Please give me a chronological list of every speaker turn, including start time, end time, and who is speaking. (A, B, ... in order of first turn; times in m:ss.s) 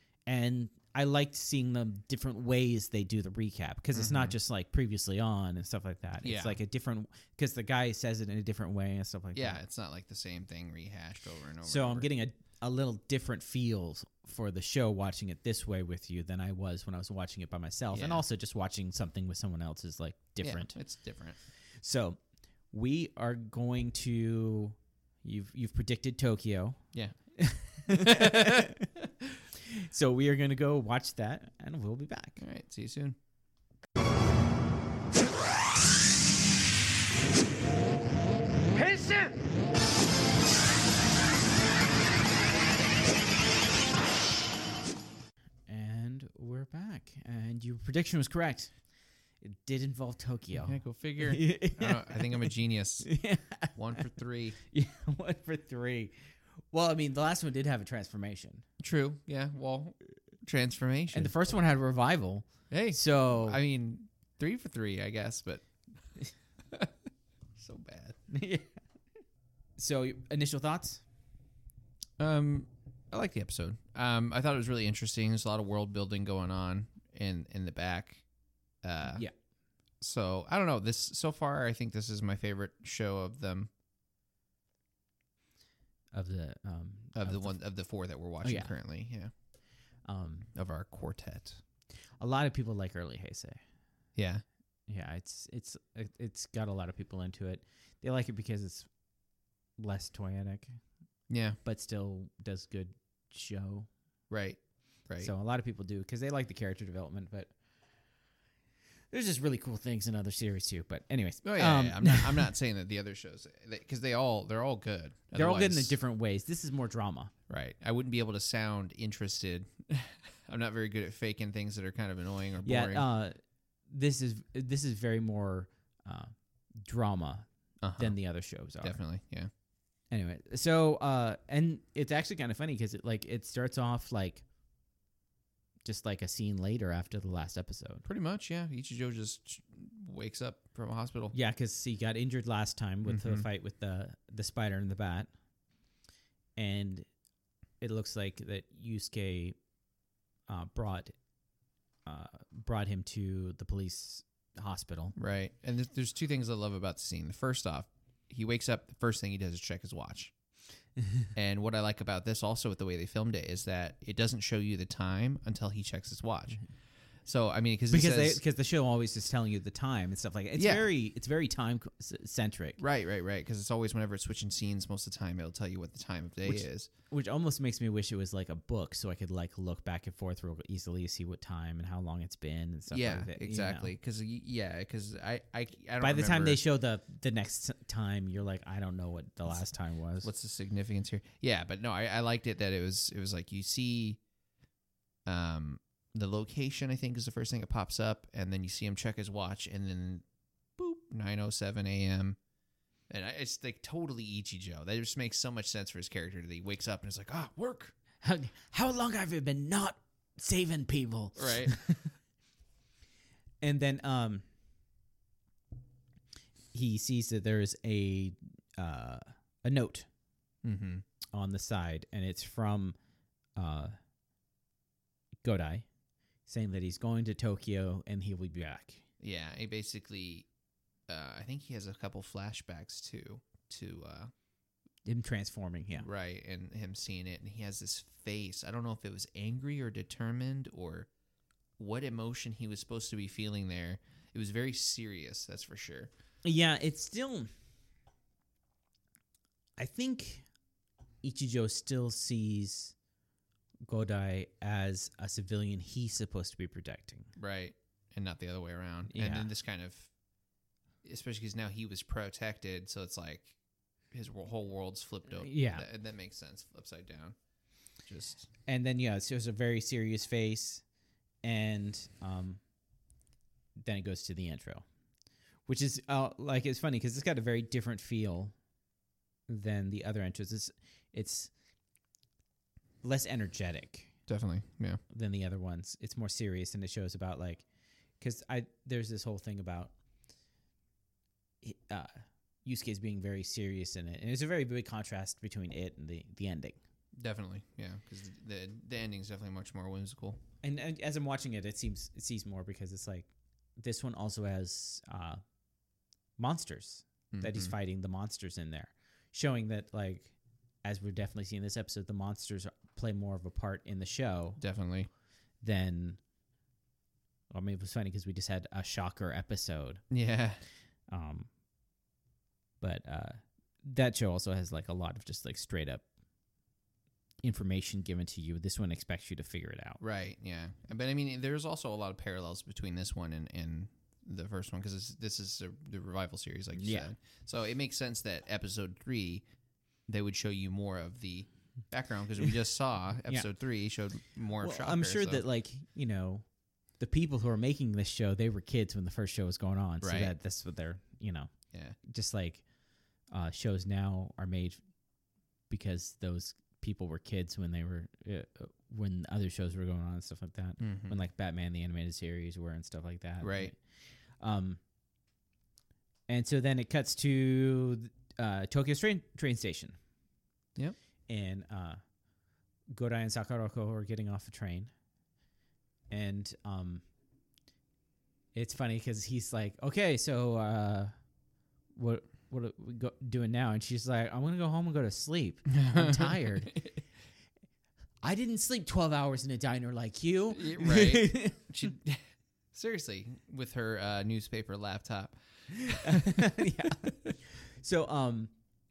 0:00.3-0:09.6 A
0:03.9-0:04.3 B
0:06.2-0:06.6 B
0:09.3-0:12.1 B
0:11.6-0:20.8 A
0:17.9-0:18.2 B
0:20.4-0:21.4 B
0:21.8-0:22.2 A
0:22.7-0:26.8 A
0:27.4-0:28.9 A
0:27.9-0:29.2 B
0:29.5-0:32.4 A
0:32.4-0:33.2 B
0:45.7-0:48.7 A
0:49.4-0:54.1 A
0:50.6-0:53.1 B
0:53.7-0:54.6 B
0:54.6-0:56.1 A
0:56.7-0:58.6 A
0:58.8-1:01.3 B
1:01.1-1:03.6 A
1:02.7-1:05.6 B
1:06.7-1:06.9 B
1:07.6-1:08.2 B
1:08.3-1:08.7 A
1:09.8-1:11.0 A
1:12.2-1:18.2 B
1:18.8-1:19.2 B
1:19.0-1:19.3 A
1:20.0-1:23.7 B
1:26.1-1:27.6 A
1:27.1-1:29.3 B
1:28.4-1:28.8 A
1:30.0-1:30.5 A
1:30.5-1:31.6 B
1:32.2-1:33.6 A
1:34.2-1:34.4 B
1:34.9-1:38.9 A
1:39.8-1:40.7 A
1:41.3-1:41.6 B
1:41.6-1:43.9 A
1:44.3-1:45.3 B
1:45.2-1:47.5 A
1:49.1-1:52.5 A
1:51.4-1:56.0 B
1:55.3-1:57.3 A
1:57.5-2:03.0 B
2:02.6-2:03.4 A
2:03.9-2:07.4 A
2:07.8-2:08.2 B
2:08.0-2:09.0 A
2:08.8-2:09.5 B
2:10.1-2:14.4 A
2:15.8-2:18.0 A
2:18.0-2:21.3 B
2:21.3-2:25.3 A
2:23.1-2:23.5 B
2:26.6-2:27.1 A
2:27.8-2:29.6 A
2:30.5-2:31.2 A
2:32.0-2:35.2 A
2:35.2-2:40.3 B
2:41.3-2:46.6 B
2:47.2-2:48.4 B
2:47.9-2:52.8 A
2:50.6-2:50.9 B
2:52.8-2:56.9 B
2:56.4-3:03.9 A
3:02.9-3:06.6 B
3:06.0-3:10.3 A
3:10.2-3:14.2 B
3:15.2-3:20.2 B
3:20.8-3:22.4 B
3:23.1-3:27.9 B
3:28.2-3:32.1 A
3:31.4-3:31.8 B
3:33.6-3:34.4 A
3:36.7-3:40.1 A
3:40.6-3:41.0 B
3:41.3-3:43.0 A
3:43.6-3:43.9 A
3:45.4-3:45.8 A
3:46.5-3:49.0 A
3:49.2-3:50.5 B
3:51.1-3:54.3 B
3:55.0-3:56.0 A
3:56.0-4:01.1 B
4:01.8-4:06.1 B
4:06.4-4:07.5 A
4:09.8-4:10.4 A
4:11.2-4:12.9 A
4:13.9-4:17.3 A
4:17.4-4:20.1 B
4:19.1-4:19.5 A
4:21.0-4:23.5 B
4:24.1-4:27.4 B
4:25.4-4:25.9 A
4:28.0-4:28.5 B
4:28.7-4:30.8 A
4:31.4-4:32.6 A
4:33.8-4:34.8 A
4:35.7-4:38.5 A
4:39.5-4:41.5 A
4:43.0-4:44.1 A
4:44.3-4:45.0 B
4:45.1-4:47.6 A
4:48.2-4:49.9 A
4:51.6-4:56.8 A
4:57.2-5:00.4 B
5:00.6-5:05.4 A
5:06.4-5:10.3 A
5:07.3-5:07.7 B
5:10.8-5:14.6 A
5:14.6-5:15.1 B
5:15.6-5:16.2 A
5:17.5-5:20.0 A
5:20.1-5:20.6 B
5:21.1-5:21.5 A
5:22.8-5:26.0 A
5:27.4-5:30.0 A
5:30.0-5:39.4 B
5:36.7-5:37.1 A
5:40.1-5:45.4 B
5:44.6-5:46.4 A
5:47.0-5:51.5 A
5:50.0-5:50.3 B
5:52.0-5:52.6 A
5:53.3-5:54.8 A
5:55.7-6:03.8 A
6:00.8-6:01.2 B
6:03.4-6:03.7 B
6:04.4-6:04.8 A
6:06.3-6:10.0 A
6:11.3-6:12.0 A
6:12.9-6:14.9 A
6:16.1-6:17.0 A
6:18.5-6:21.1 A
6:22.0-6:26.8 A
6:25.7-6:27.0 B
6:28.2-6:31.7 A
6:30.5-6:36.6 B
6:35.7-6:38.5 A